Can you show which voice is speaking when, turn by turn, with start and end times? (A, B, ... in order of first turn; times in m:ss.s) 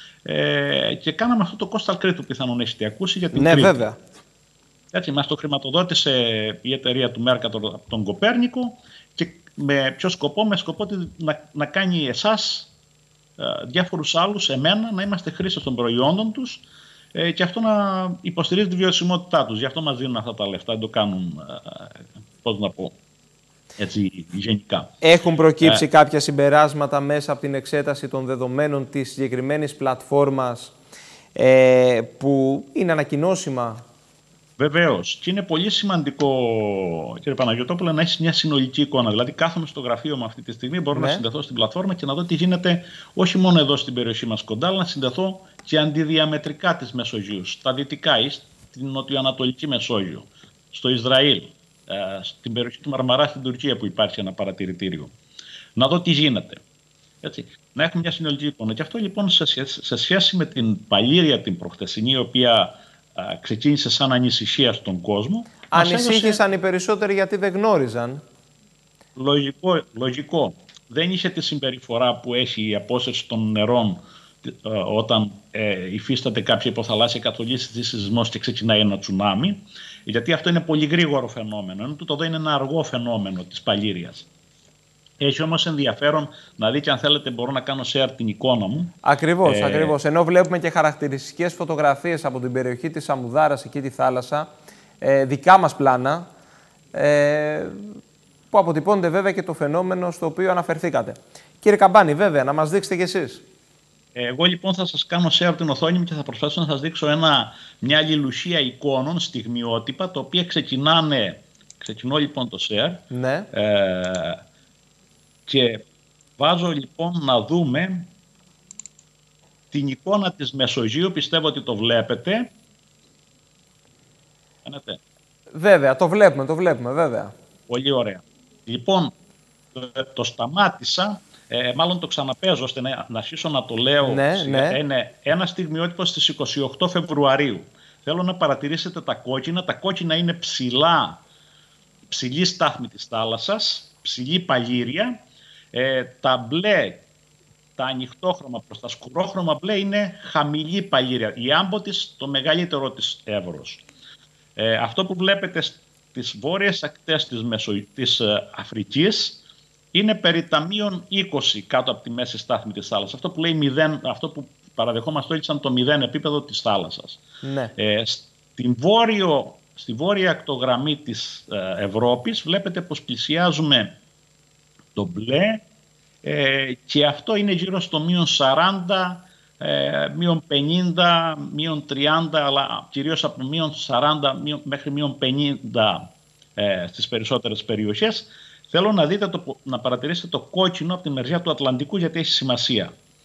0:00.2-0:03.8 A
0:03.3-0:04.0 B
0:04.9-0:12.7 A
0:13.4-0:22.9 A
0:23.8-0:24.9 A
0:25.0-0:30.7 B
0:31.4-0:33.8 B
0:34.6-0:55.1 A
0:40.9-0:41.2 B
0:55.8-0:56.6 A
0:57.2-1:06.4 A
1:05.7-1:08.2 B
1:09.2-1:24.3 A
1:25.2-1:29.9 A
1:29.0-1:34.5 B
1:35.0-1:36.3 B
1:36.9-1:37.8 B
1:38.5-1:43.4 B
1:44.1-1:54.4 A
1:53.1-1:53.5 B
1:55.5-1:55.8 A
1:56.4-1:58.1 A
1:59.7-2:02.5 A
2:04.6-2:05.0 A
2:05.5-2:07.3 B
2:07.7-2:09.1 A
2:09.7-2:21.2 A
2:14.0-2:14.8 B
2:22.1-2:25.1 A
2:25.7-2:27.0 A
2:27.8-2:33.8 A
2:34.6-2:39.4 A
2:39.9-2:47.2 A
2:47.4-2:47.7 B
2:47.8-2:53.9 A
2:54.9-2:55.6 A
2:56.2-3:12.9 A